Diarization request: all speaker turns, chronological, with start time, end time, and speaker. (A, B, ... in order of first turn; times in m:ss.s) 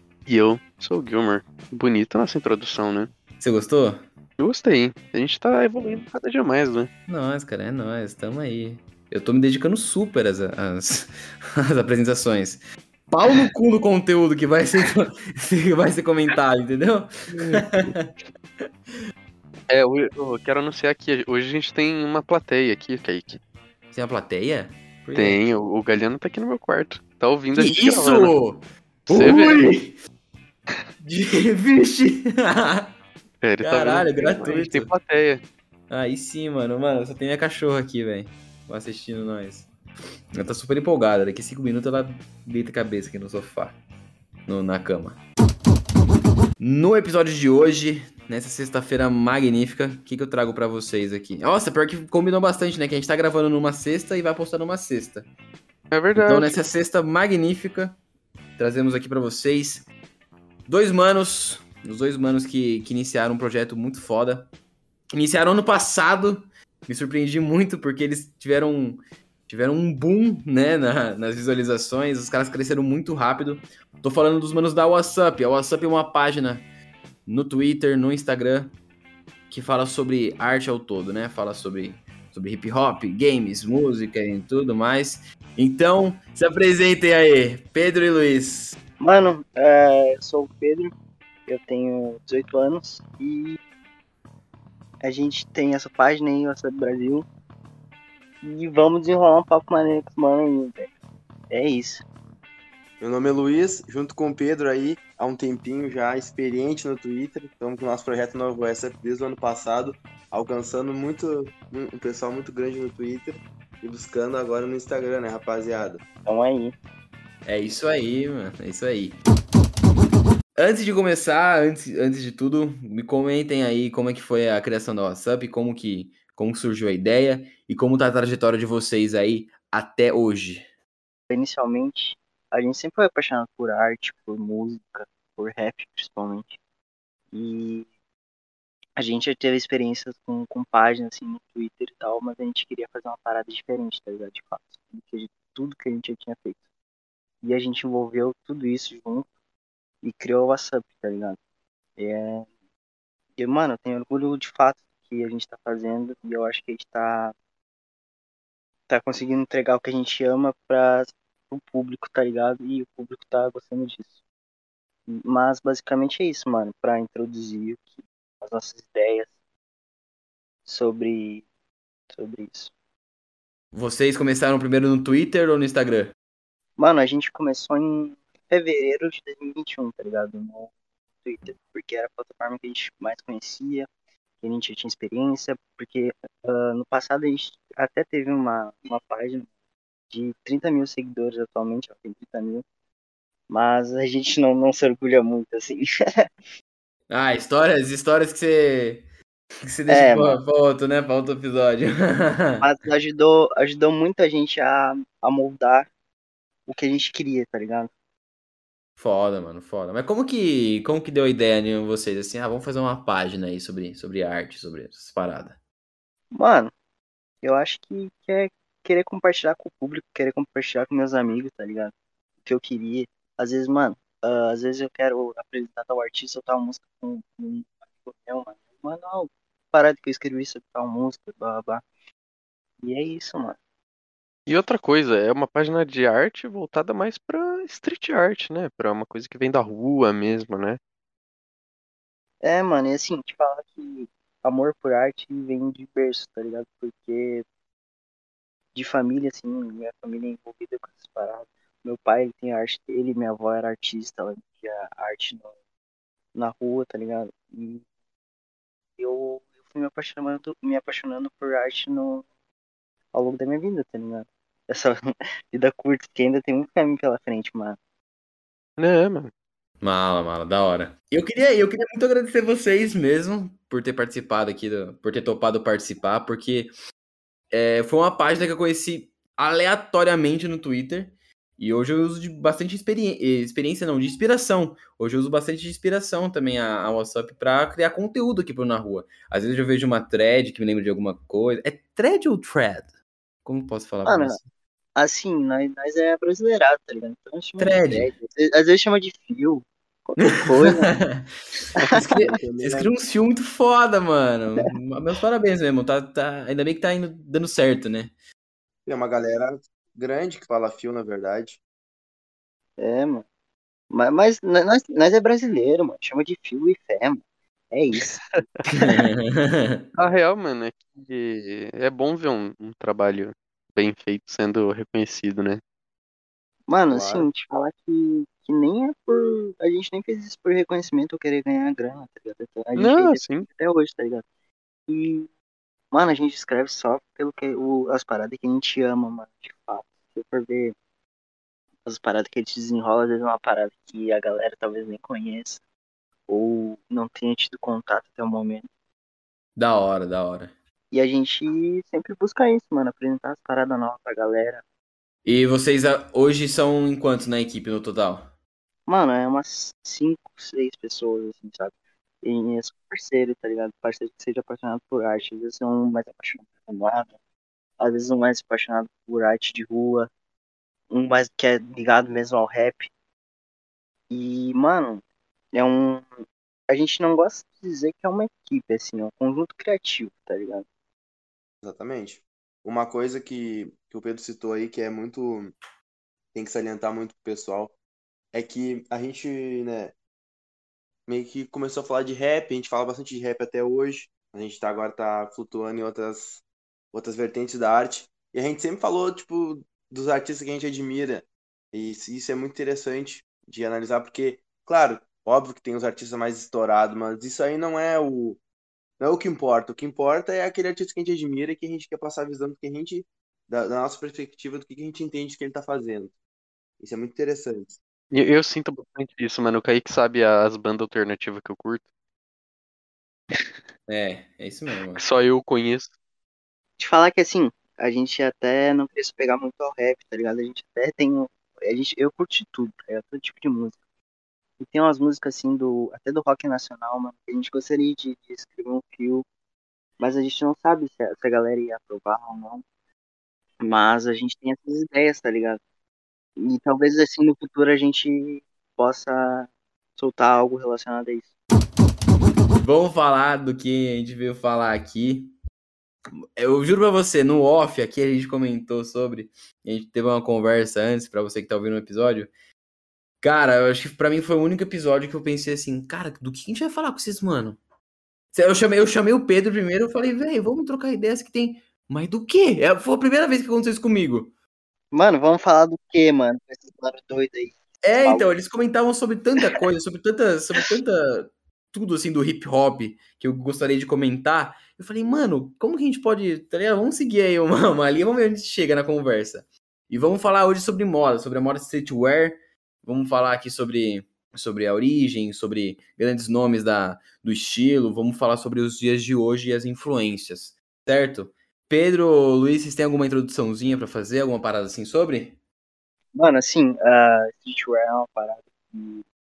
0:00.3-0:03.1 A
0:03.4-0:04.0 B
0:04.4-0:06.9 A
0:07.1-0:18.1 B
0:17.4-0:17.9 A
0:18.6-0:19.0 B
0:19.7-0:23.4 A
0:23.9-0:25.4 B
0:25.2-0:28.4 A
0:27.6-0:30.0 B
0:29.1-0:29.8 A
0:31.0-0:32.9 B
0:33.4-0:35.4 A
0:33.6-0:34.9 B
0:35.9-0:39.7 B
0:40.4-0:43.8 B
0:44.5-0:45.2 B
0:46.6-0:55.3 B
0:55.9-0:56.6 A
0:56.2-0:58.0 B
0:58.6-0:59.9 B
1:00.7-1:04.5 B
1:05.1-1:16.6 B
1:17.3-1:18.7 B
1:19.5-1:28.8 B
1:29.0-1:30.9 C
1:31.5-1:33.6 C
1:35.0-1:37.3 C
1:38.4-1:40.9 C
1:41.5-1:42.0 C
1:43.0-1:56.0 D
1:56.3-1:56.8 C
1:57.4-1:59.2 B
2:00.6-2:10.7 B
2:11.3-2:16.6 C
2:17.3-2:17.9 C
2:19.0-2:26.6 C
2:27.4-2:29.3 C
2:30.0-2:31.4 C
2:32.0-2:32.5 C
2:33.4-2:37.3 C
2:38.9-2:44.1 C
2:45.1-2:47.9 C
2:48.4-2:49.3 C
2:50.7-2:51.4 C
2:52.1-2:52.7 C
2:53.7-2:56.1 B
2:56.8-3:00.7 C
3:01.2-3:03.9 C
3:04.4-3:09.5 C
3:10.1-3:12.6 C
3:13.5-3:15.9 C
3:17.1-3:19.1 B
3:19.6-3:22.7 B
3:19.9-3:20.4 C
3:22.6-3:25.9 C
3:26.7-3:27.9 C
3:29.0-3:35.6 B
3:36.3-3:36.7 C
3:37.4-3:41.9 C
3:42.4-3:51.8 C
3:52.8-3:53.6 C
3:54.5-4:00.8 A
4:02.4-4:07.4 C
4:08.7-4:15.5 C
4:16.4-4:17.8 C
4:19.0-4:22.2 C
4:23.1-4:27.8 C
4:28.8-4:29.3 A
4:29.8-4:36.7 B
4:37.5-4:52.9 B
4:53.4-4:54.5 B
4:54.0-4:54.4 C
4:55.0-5:00.9 C
4:57.6-4:58.1 B
5:00.3-5:08.1 B
5:01.8-5:02.2 C
5:02.3-5:02.9 D
5:08.9-5:11.6 D
5:12.8-5:13.2 C
5:13.9-5:18.2 C
5:18.7-5:19.9 B
5:20.0-5:25.6 A
5:26.7-5:34.2 C
5:26.9-5:27.3 D
5:32.8-5:33.5 A
5:34.9-5:35.3 C
5:35.9-5:40.8 C
5:41.9-5:45.6 C
5:46.3-5:48.7 C
5:49.6-5:50.5 B
5:50.9-5:54.6 C
5:55.2-5:58.3 B
5:58.9-6:07.1 C
6:07.8-6:10.1 C
6:10.9-6:12.9 C
6:14.1-6:15.0 C
6:15.5-6:20.7 C
6:21.6-6:25.6 D
6:26.3-6:27.7 D
6:28.3-6:29.9 D
6:31.1-6:36.4 D
6:36.9-6:48.4 D
6:49.0-6:56.1 D
6:56.8-6:57.8 D
6:58.1-7:01.9 A
7:03.9-7:05.0 B
7:05.0-7:05.9 A
7:06.8-7:13.8 C
7:14.6-7:19.2 C
7:20.0-7:22.6 C
7:23.6-7:25.6 C
7:26.4-7:31.3 C
7:32.6-7:35.3 B
7:36.4-7:42.3 B
7:43.2-7:47.6 B
7:48.3-7:54.3 B
7:54.9-7:58.3 C
7:57.8-8:25.4 B
8:26.2-8:29.0 C